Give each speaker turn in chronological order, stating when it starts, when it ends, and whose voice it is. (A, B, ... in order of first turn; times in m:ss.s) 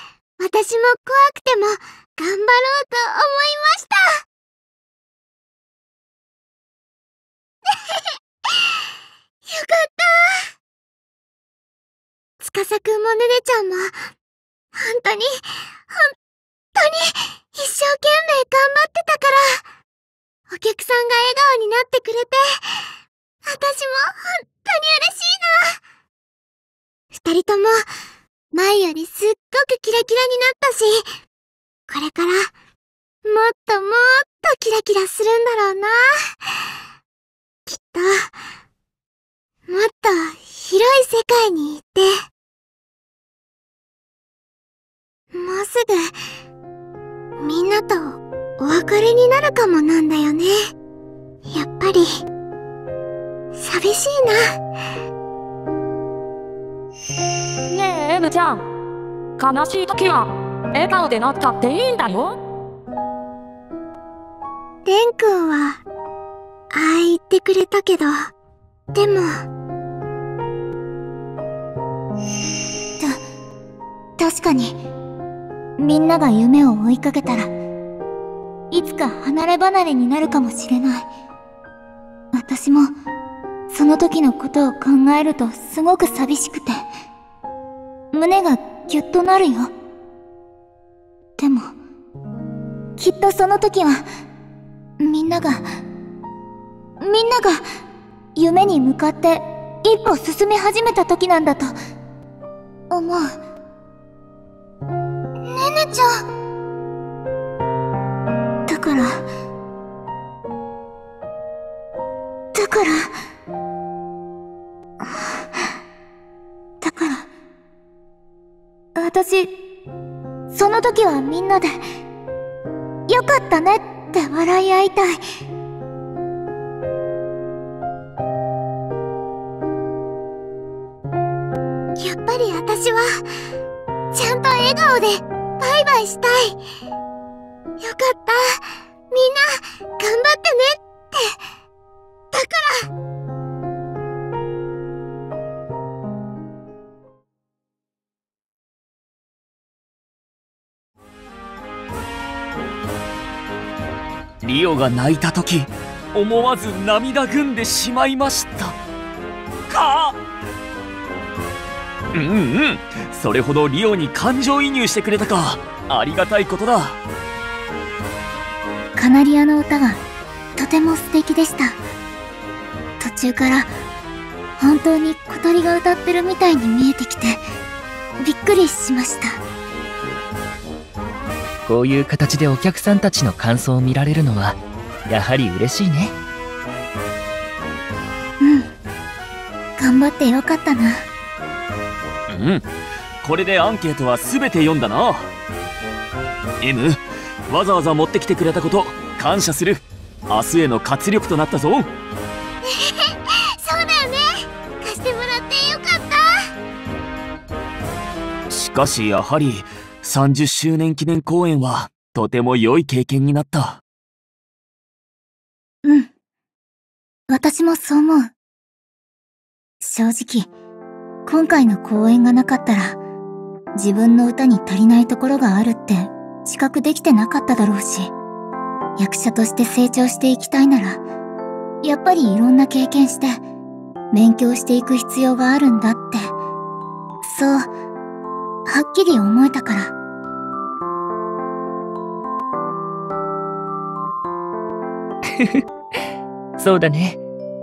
0:00.4-0:04.2 A
0:07.7-0:08.8 A
0:09.5-0:10.5 A
0:12.4-0:14.0 A
0:14.8-0:16.1 A
0:16.8-0:19.6 A
0:20.5-0:22.9 A
0:23.5-0:25.8 A
0:27.1-0:27.8 A
0:28.5-0:31.1 A
0:31.9-0:32.5 A
0:33.2-0:36.5 A
0:37.7-0:38.4 A
0:39.7-0:42.2 A
0:45.3-0:46.1 A
0:47.4-0:50.7 A
0:51.5-0:52.2 A
0:53.5-0:54.6 A
0:57.7-0:58.6 B
0:59.4-1:02.4 B
1:04.9-1:05.8 A
1:06.7-1:08.3 A
1:08.9-1:09.4 A
1:14.2-1:14.8 C
1:15.8-1:17.5 C
1:18.7-1:21.1 C
1:22.3-1:22.9 C
1:23.7-1:26.8 C
1:28.1-1:29.7 C
1:31.4-1:31.7 C
1:33.0-1:34.0 C
1:35.0-1:35.6 C
1:37.0-1:37.6 C
1:38.4-1:41.7 C
1:42.9-1:43.3 C
1:45.5-1:46.1 A
1:48.7-1:49.2 C
1:52.5-1:53.1 C
1:56.8-1:57.3 C
1:59.0-1:59.5 C
2:00.5-2:01.8 C
2:03.1-2:05.2 C
2:12.0-2:13.3 A
2:14.1-2:16.6 A
2:17.8-2:21.4 A
2:22.3-2:22.9 A
2:34.4-2:38.8 D
2:39.7-2:40.2 D
2:42.1-2:47.0 D
2:49.0-2:50.0 C
2:50.6-2:51.8 C
2:53.0-2:53.7 C
2:54.6-2:57.4 C
2:58.2-2:59.4 C
3:01.7-3:06.2 E
3:08.4-3:08.7 C
3:09.8-3:11.1 C
3:12.3-3:12.6 D
3:13.2-3:15.3 D
3:16.6-3:21.9 D
3:22.6-3:26.2 A
3:28.5-3:33.8 D
3:35.8-3:36.1 C
3:37.3-3:38.3 C
3:39.8-3:40.5 C
3:41.3-3:43.0 C
3:43.8-3:48.1 C
3:49.0-3:51.0 C
3:51.8-3:53.4 C
3:54.1-3:56.3 C
3:57.2-3:57.7 C
3:58.7-3:59.9 C
4:05.4-4:05.6 E
4:06.6-4:07.2 E